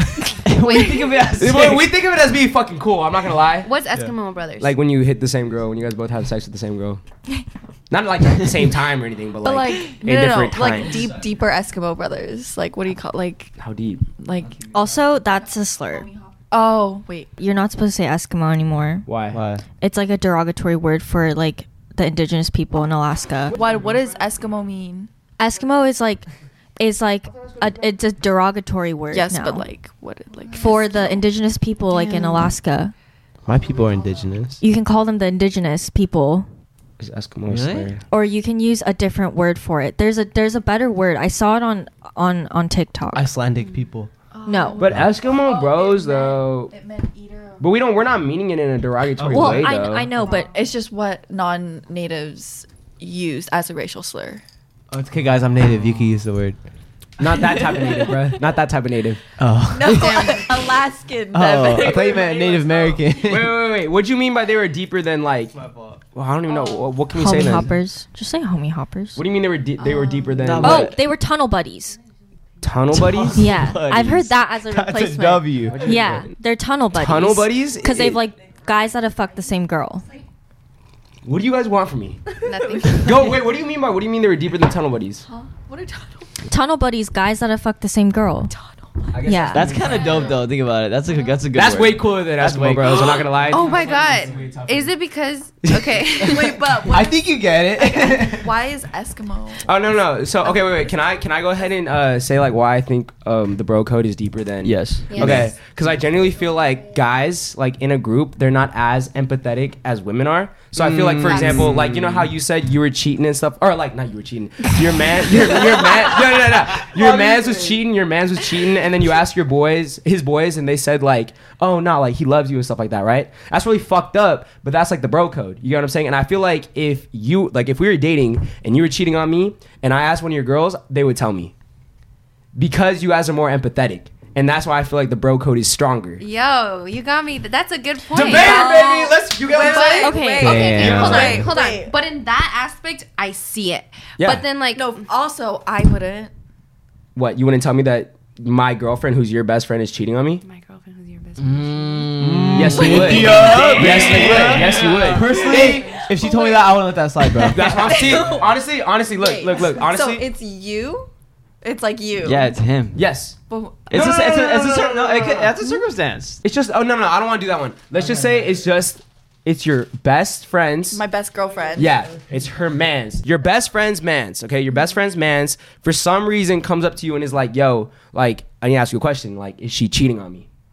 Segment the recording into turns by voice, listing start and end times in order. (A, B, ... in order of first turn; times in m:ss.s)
0:00.2-0:00.8 A
0:00.4-0:01.9 B
0:00.6-0:01.3 C
0:01.4-0:03.7 D
0:03.6-0:04.7 C
0:04.6-0:07.0 D
0:07.9-0:11.2 D
0:09.4-0:13.5 A
0:13.6-0:14.0 D
0:14.2-0:14.7 A
0:14.7-0:16.1 E
0:15.9-0:17.3 A
0:17.4-0:19.1 E
0:19.1-0:19.4 D
0:19.3-0:19.6 F
0:19.8-0:23.6 E
0:23.5-0:25.1 A
0:25.4-0:26.2 E
0:26.8-0:29.6 E
0:29.1-0:31.2 A
0:30.5-0:32.9 E
0:31.9-0:32.5 C
0:33.4-0:34.6 F
0:34.6-0:36.5 E
0:37.0-0:38.0 D
0:37.5-0:37.9 B
0:38.1-0:43.3 E
0:43.1-0:44.1 F
0:44.3-0:47.6 A
0:44.4-0:44.8 E
0:44.8-0:46.7 D
0:47.6-0:50.1 D
0:49.2-0:49.7 F
0:49.3-0:50.5 E
0:50.2-0:54.4 A
0:54.9-0:56.6 F
0:57.2-0:59.2 D
0:57.4-0:58.4 A
0:59.4-1:00.3 F
0:59.7-1:03.0 A
1:01.3-1:03.7 F
1:01.8-1:02.2 D
1:03.2-1:05.5 D
1:05.5-1:06.0 F
1:06.1-1:07.7 D
1:07.1-1:09.2 E
1:09.2-1:10.9 D
1:09.8-1:10.6 A
1:10.4-1:11.0 B
1:10.6-1:12.0 E
1:12.6-1:13.5 D
1:13.0-1:15.9 F
1:13.1-1:14.2 B
1:13.4-1:20.0 E
1:15.7-1:16.3 D
1:16.9-1:18.2 D
1:21.2-1:22.2 D
1:22.4-1:23.4 C
1:22.5-1:23.3 A
1:22.9-1:25.2 D
1:25.3-1:26.3 A
1:26.5-1:28.5 E
1:28.5-1:30.3 A
1:29.1-1:30.1 D
1:29.2-1:29.8 E
1:29.5-1:33.3 B
1:31.5-1:34.9 D
1:33.1-1:36.5 C
1:35.8-1:36.2 F
1:36.2-1:39.7 A
1:36.9-1:38.5 F
1:39.6-2:11.5 D
1:44.6-1:45.5 B
1:45.1-1:45.5 C
1:45.2-1:45.5 F
1:50.7-1:52.3 B
1:51.2-1:51.6 C
1:57.0-1:57.5 F
2:12.5-2:16.2 D
2:16.2-2:25.0 C
2:18.1-2:19.1 D
2:18.2-2:21.9 A
2:18.2-2:21.4 F
2:18.5-2:18.8 E
2:20.0-2:20.7 E
2:20.6-2:21.5 D
2:24.2-2:24.4 D
2:24.7-2:26.3 A
2:27.1-2:30.4 D
2:30.4-2:32.2 C
2:31.4-2:34.9 B
2:32.2-2:38.1 F
2:32.5-2:35.7 D
2:33.1-2:36.9 A
2:37.4-2:38.6 A
2:37.5-2:40.2 D
2:39.1-2:41.1 A
2:41.6-2:42.6 A
2:42.2-2:43.0 B
2:42.9-2:43.4 D
2:43.5-2:44.0 A
2:43.9-2:46.4 B
2:43.9-2:45.5 D
2:46.4-2:51.0 D
2:50.9-2:52.0 A
2:51.8-3:00.4 D